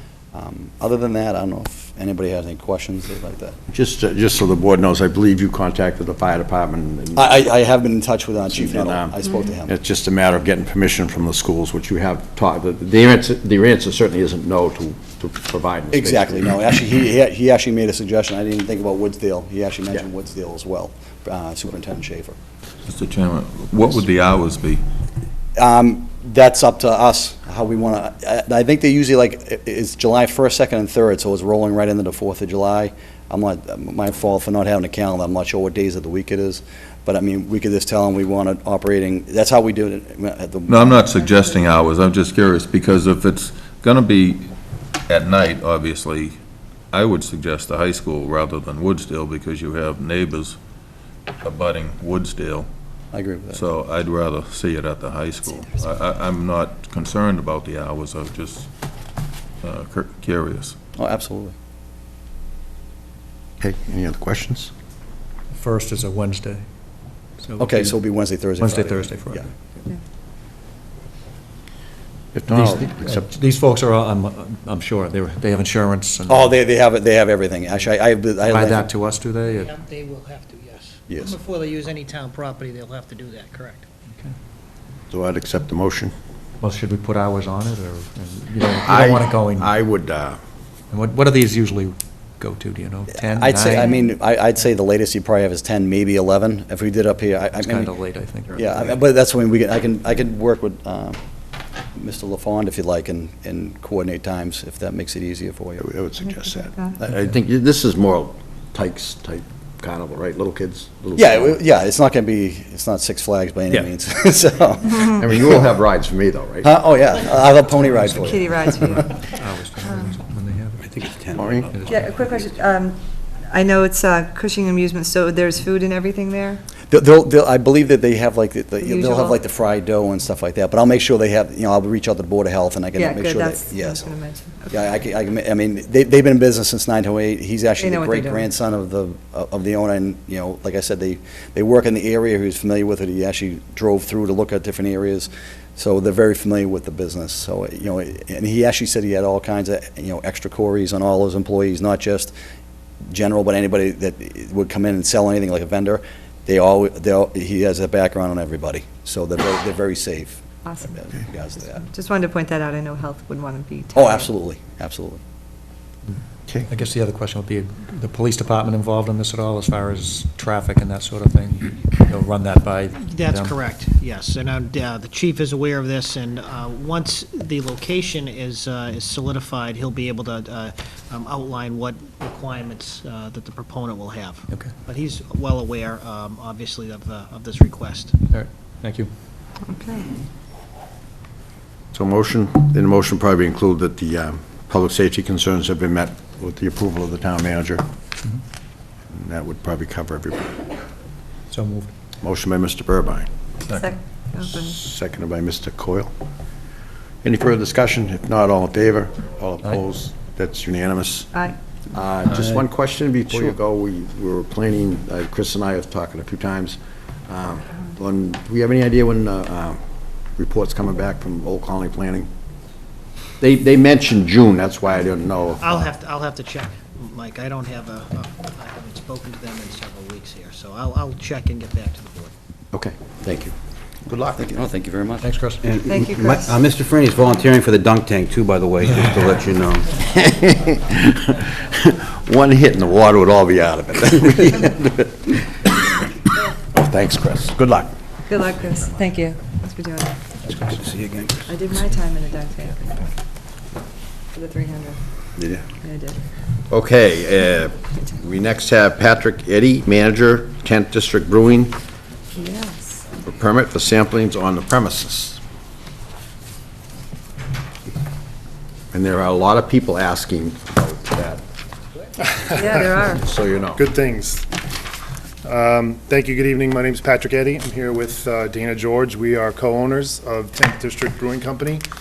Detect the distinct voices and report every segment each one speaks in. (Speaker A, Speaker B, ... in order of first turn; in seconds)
Speaker A: 0.3-3.6, 7.2-9.7, 15.9-22.4, 25.6-41.0, 53.1-53.6, 61.0-61.5, 67.6-69.5, 76.3-78.9, 93.2-97.9, 98.5-101.2, 102.0-105.9, 111.2-115.6, 116.6-119.0, 126.9-134.2, 134.7-152.3, 153.1-161.9, 163.9-165.2, 234.3-235.3
Speaker B: 3.7-7.4, 8.5-16.6, 63.6-64.7, 72.3-73.3, 85.1-86.1, 88.9-90.4, 105.8-111.6, 115.2-116.7, 121.3-121.7, 191.9-197.9, 199.1-200.7, 202.2-203.3, 204.4-206.1, 207.2-211.3, 211.9-219.8, 220.4-222.3, 223.4-225.7, 232.7-233.6, 239.9-246.0, 246.6-247.9, 256.7-261.8, 263.2-265.4, 268.9-271.4, 273.0-273.9
Speaker C: 22.9-24.8, 40.7-44.5, 45.1-46.4, 46.9-50.6, 51.4-52.7, 53.5-58.7, 59.6-60.8
Speaker D: 41.2-41.5, 118.2-119.3, 119.8-120.1, 121.9-126.6, 128.8-129.4, 132.9-134.8, 137.8-138.5, 160.6-161.0, 161.6-164.3, 189.6-190.1, 203.6-204.8, 235.8-236.6, 248.3-250.2, 251.4-253.1, 254.3-255.3, 255.8-256.2, 262.3-263.1, 272.3-273.3
Speaker E: 65.5-66.6, 67.4-67.9, 68.6-69.5, 72.5-76.5, 78.4-79.7, 86.6-89.8, 90.9-93.9, 97.6-98.9, 119.0-120.9, 121.7-122.1, 166.7-173.6, 188.2-189.1, 201.5-201.9, 235.2-235.7
Speaker F: 79.5-83.8, 173.0-188.2, 225.6-232.3
Speaker G: 120.8-121.7, 235.6-239.9, 250.5-251.5
Speaker H: 272.3-272.9, 273.8-274.4, 275.4-281.8